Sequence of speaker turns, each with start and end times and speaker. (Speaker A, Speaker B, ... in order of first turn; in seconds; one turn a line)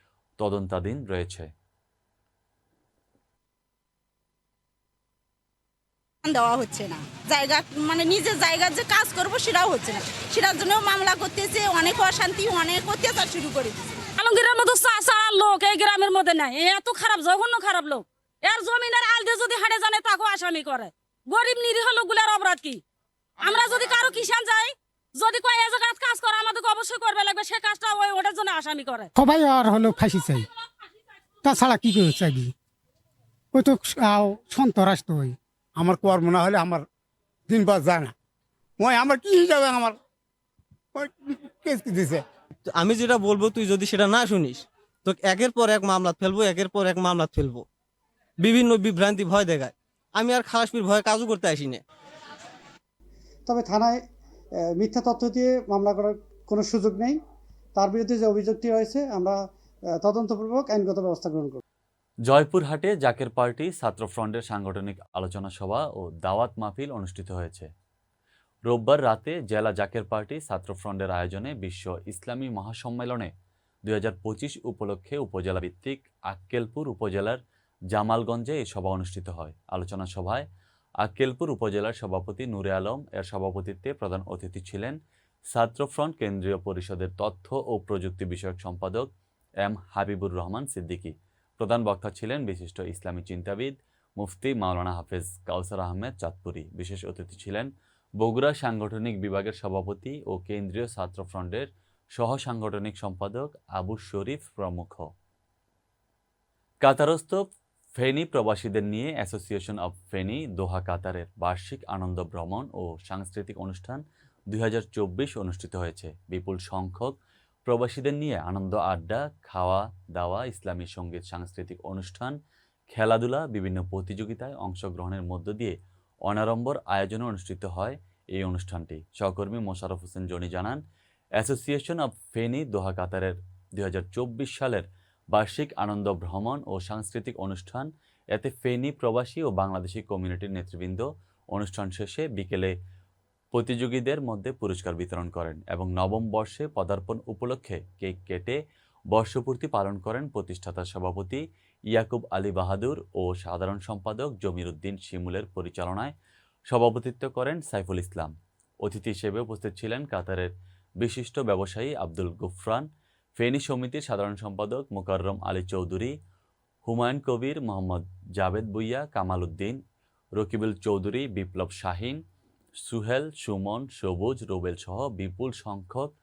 Speaker A: 0.4-1.5
Speaker B: 6.2-13.9
Speaker C: 14.2-22.8
Speaker C: 23.4-29.1
Speaker D: 29.2-30.5
Speaker D: 31.4-32.5
Speaker D: 33.5-35.4
Speaker E: 35.8-36.9
Speaker E: 37.5-38.1
Speaker E: 38.8-40.0
Speaker E: 40.9-42.2
Speaker F: 42.7-47.6
Speaker F: 48.4-51.8
Speaker E: 49.4-49.7
Speaker G: 53.5-54.0
Speaker G: 54.8-57.2
Speaker G: 57.8-59.4
Speaker G: 60.0-61.6
Speaker A: 62.3-67.7
Speaker A: 68.7-73.3
Speaker A: 73.8-77.4
Speaker A: 77.9-80.5
Speaker A: 81.0-85.0
Speaker A: 85.5-89.1
Speaker A: 89.6-105.1
Speaker A: 106.8-107.4
Speaker A: 108.0-122.4
Speaker A: 122.9-130.8
Speaker A: 131.4-142.8
Speaker A: 143.5-148.6
Speaker A: 149.1-156.1
Speaker A: 156.7-166.2
Speaker A: 166.8-169.8
Speaker A: 170.4-172.2
Speaker A: 172.8-176.1